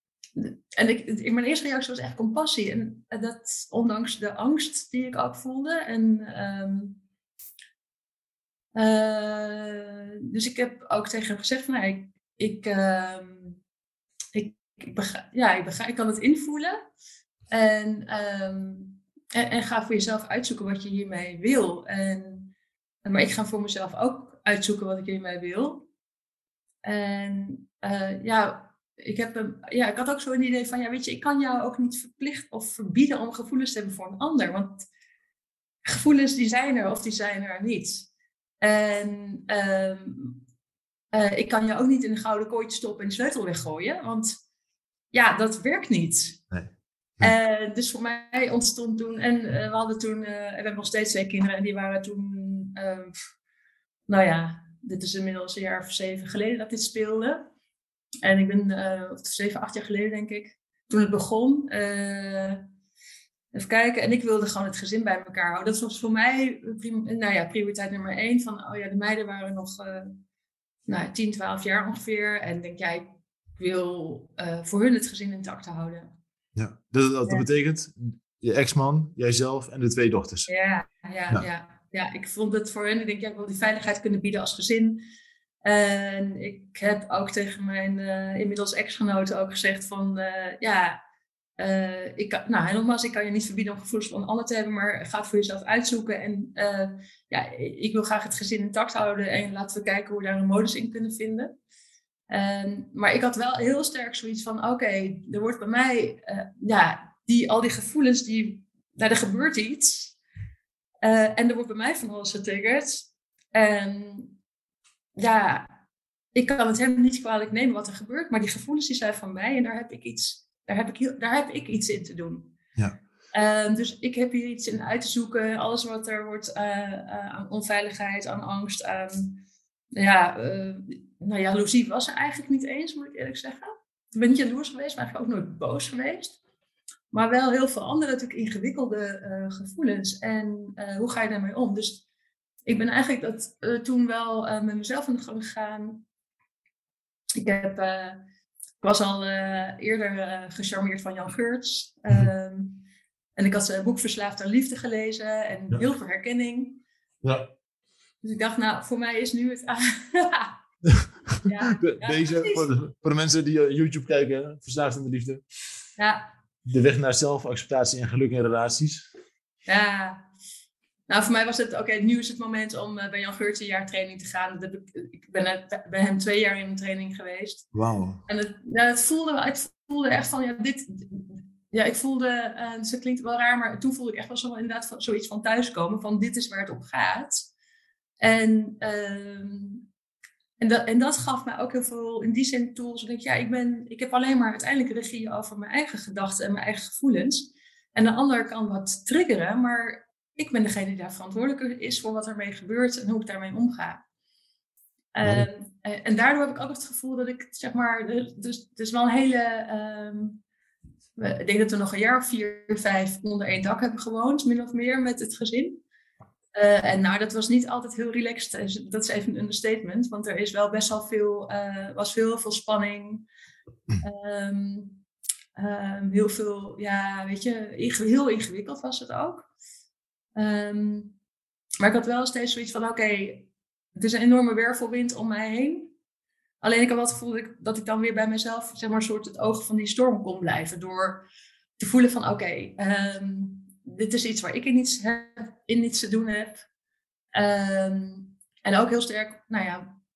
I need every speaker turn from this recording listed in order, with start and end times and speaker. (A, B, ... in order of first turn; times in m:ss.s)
0:00.4-0:07.0 A
0:08.8-0:13.6 A
0:14.4-0:16.8 A
0:17.5-0:22.5 A
0:23.0-0:25.9 A
0:26.8-0:34.9 A
0:35.8-0:38.1 A
0:38.6-0:40.4 A
0:41.1-0:44.3 A
0:45.1-0:46.4 A
0:46.5-0:47.3 B
0:47.2-0:53.2 A
0:54.1-0:57.5 A
0:58.2-1:02.6 A
1:03.5-1:10.2 A
1:10.9-1:16.1 A
1:16.6-1:20.5 B
1:20.5-1:25.0 A
1:25.6-1:31.0 A
1:31.6-1:41.6 A
1:42.3-1:50.2 A
1:51.0-1:54.4 A
1:55.2-1:55.7 A
1:56.4-2:02.6 A
2:03.3-2:09.4 A
2:10.0-2:16.4 A
2:17.1-2:22.0 A
2:22.7-2:26.0 A
2:27.4-2:28.2 A
2:28.8-2:32.8 A
2:33.4-2:36.8 A
2:37.2-2:37.5 B
2:38.2-2:40.6 A
2:40.9-2:45.4 B
2:41.4-2:42.7 A
2:46.0-2:46.3 A
2:46.7-2:49.1 B
2:49.7-2:50.3 A
2:51.1-2:57.7 A
2:57.7-2:58.2 B
2:58.3-3:07.5 A
3:08.2-3:09.9 A
3:10.6-3:24.0 A
3:25.2-3:30.4 A
3:31.2-3:35.8 A
3:36.6-3:43.3 A
3:44.0-3:45.0 A
3:45.6-3:49.5 A
3:50.4-3:51.2 A
3:51.8-3:55.9 A
3:56.6-4:01.3 A
4:01.8-4:06.6 A
4:07.4-4:10.0 A